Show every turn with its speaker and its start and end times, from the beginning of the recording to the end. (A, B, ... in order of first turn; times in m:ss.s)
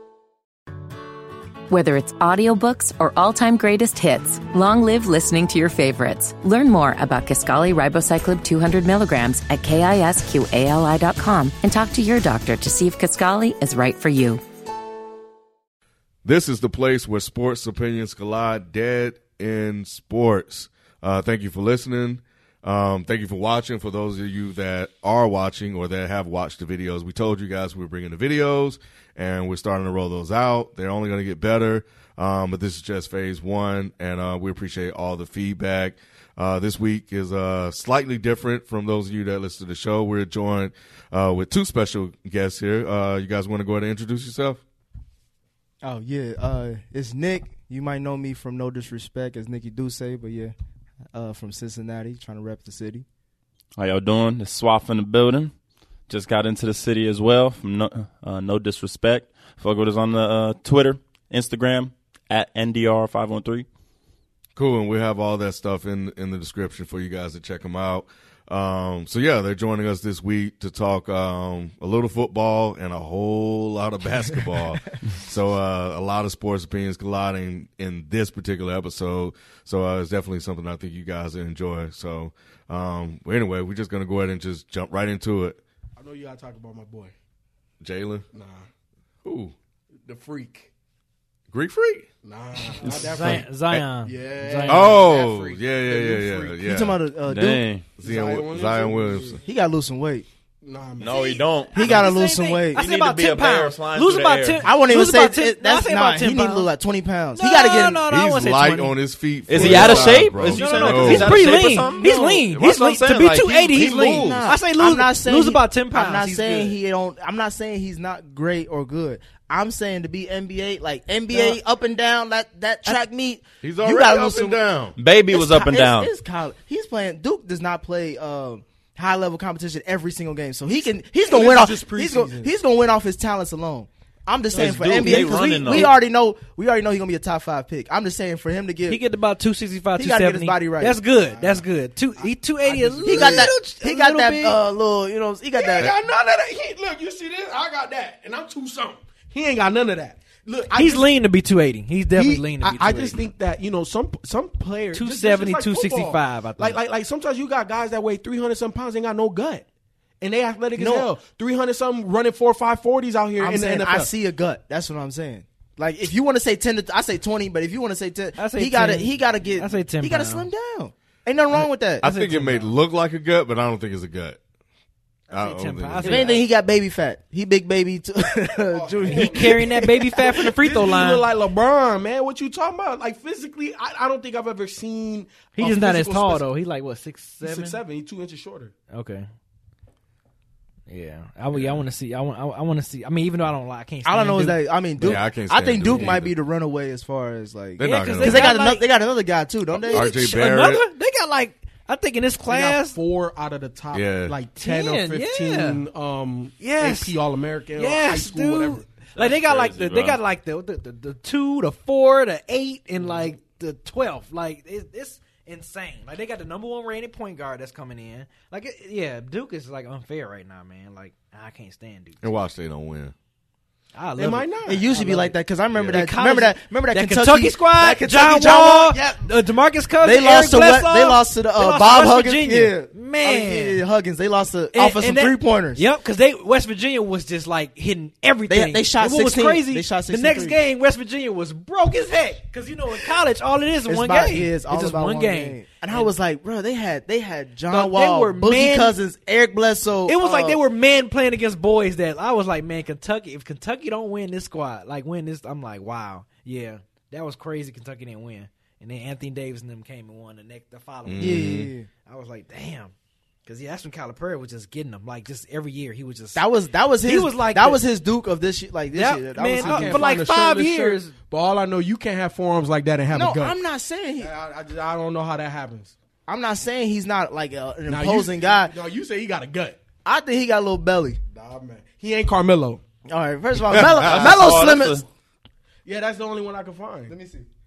0:01.7-0:14.4 A
0:16.2-0:44.6 B
0:45.8-0:50.5 C
0:51.1-0:53.1 C
0:53.8-0:55.5 D
0:56.1-1:03.7 D
1:04.6-1:25.6 B
1:26.0-1:27.1 E
1:27.8-1:28.3 B
1:28.3-1:28.7 E
1:29.2-1:29.5 B
1:30.0-1:30.7 E
1:31.5-1:32.1 B
1:32.2-1:33.5 E
1:32.8-1:33.9 B
1:33.0-1:34.9 F
1:34.0-1:36.6 E
1:34.7-1:37.0 B
1:36.6-1:37.7 C
1:37.3-1:37.9 D
1:38.0-1:39.4 B
1:38.0-1:39.4 E
1:39.4-1:40.3 C
1:40.6-1:41.4 E
1:41.0-1:42.2 D
1:41.7-1:42.8 C
1:41.8-1:46.7 F
1:42.7-1:44.7 D
1:44.6-1:48.1 C
1:47.4-1:49.0 F
1:48.0-1:51.5 B
1:49.5-1:54.5 D
1:49.5-1:56.8 F
1:53.7-2:04.6 C
2:01.3-2:01.6 F
2:03.6-2:05.0 B
2:05.0-2:06.1 D
2:05.3-2:19.0 C
2:11.2-2:12.5 E
2:14.5-2:16.0 F
2:14.6-2:16.0 D
2:18.9-2:24.6 F
2:20.0-2:21.5 C
2:22.6-2:23.5 E
2:23.0-2:25.9 C
2:25.6-2:31.1 E
2:30.7-2:33.2 F
2:32.1-2:39.6 E
2:34.9-2:36.8 F
2:40.2-2:44.1 E
2:40.8-2:41.1 C
2:43.4-2:52.1 C
2:48.4-2:50.5 F
2:52.0-2:52.7 F
2:52.0-2:54.4 B
2:55.3-2:56.4 B
2:55.3-2:56.5 F
2:56.0-2:59.6 C
2:58.7-3:06.5 E
2:59.1-3:01.3 F
3:05.6-3:07.8 F
3:07.4-3:08.7 E
3:08.9-3:09.3 F
3:10.9-3:14.6 F
3:11.5-3:11.8 B
3:14.0-3:20.4 C
3:15.0-3:16.3 B
3:15.8-3:16.2 F
3:17.8-3:18.6 B
3:17.8-3:18.8 F
3:19.7-3:20.8 B
3:19.8-3:23.0 F
3:22.5-3:28.8 E
3:23.9-3:24.4 B
3:24.6-3:25.8 F
3:26.6-3:27.2 F
3:27.8-3:42.3 F
3:29.2-3:30.2 D
3:42.2-3:43.1 B
3:44.0-3:45.3 F
3:44.2-3:44.9 E
3:44.7-3:49.2 C
3:45.7-3:46.0 B
3:45.9-3:53.8 F
3:50.0-3:55.8 C
3:54.7-4:06.1 F
3:58.5-4:00.6 C
4:03.9-4:10.6 C
4:07.7-4:08.4 E
4:07.8-4:08.9 F
4:10.1-4:22.9 F
4:21.0-4:21.7 B
4:21.2-4:21.9 C
4:23.4-4:26.4 F
4:26.4-4:30.1 C
4:27.0-4:27.8 F
4:28.9-4:31.1 F
4:29.6-4:33.6 E
4:33.1-4:34.3 C
4:34.2-4:36.0 E
4:36.3-4:38.7 C
4:37.9-4:39.8 E
4:40.0-4:41.2 C
4:41.3-4:42.8 E
4:43.1-4:45.0 C
4:43.7-4:44.5 B
4:43.7-4:45.0 D
4:45.8-4:47.2 E
4:47.1-4:47.5 C